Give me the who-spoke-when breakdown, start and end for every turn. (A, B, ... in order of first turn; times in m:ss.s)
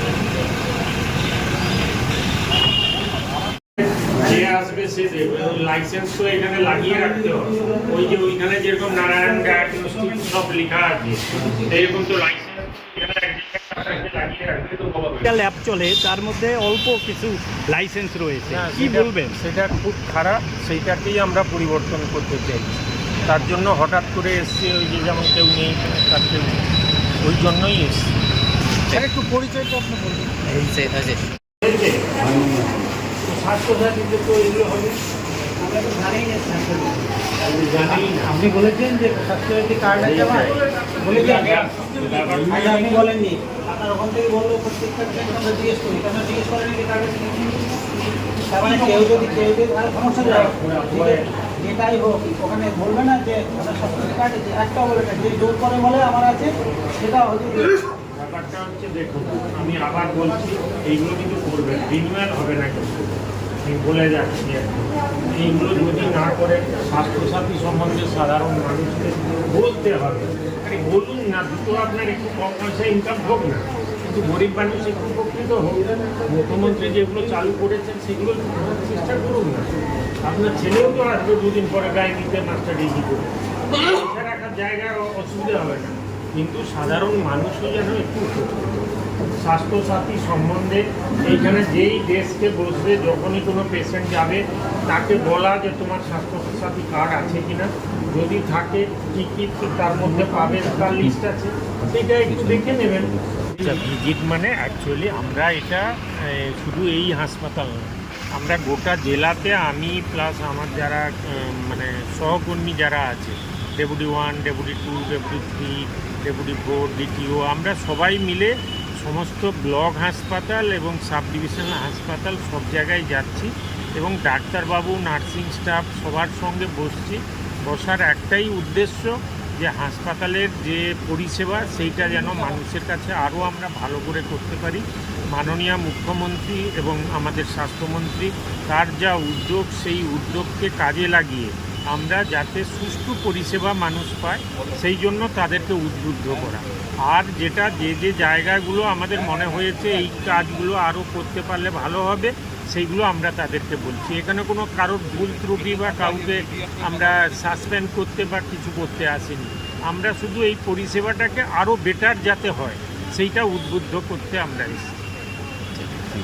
0:04.0-0:15.2 A
0:06.9-0:07.9 B
0:09.3-0:10.3 B
0:15.2-0:19.4 C
0:18.4-0:26.6 A
0:27.2-0:28.1 A
0:28.9-0:30.4 B
0:31.6-0:32.1 A
0:33.3-0:35.0 A
0:35.6-0:37.0 B
0:37.4-0:38.2 A
0:37.7-0:47.7 B
0:40.0-0:43.1 A
0:48.5-0:57.8 B
0:48.6-0:49.2 A
0:50.2-0:51.2 A
0:58.1-1:19.7 A
1:20.2-1:28.7 A
1:29.4-2:44.9 A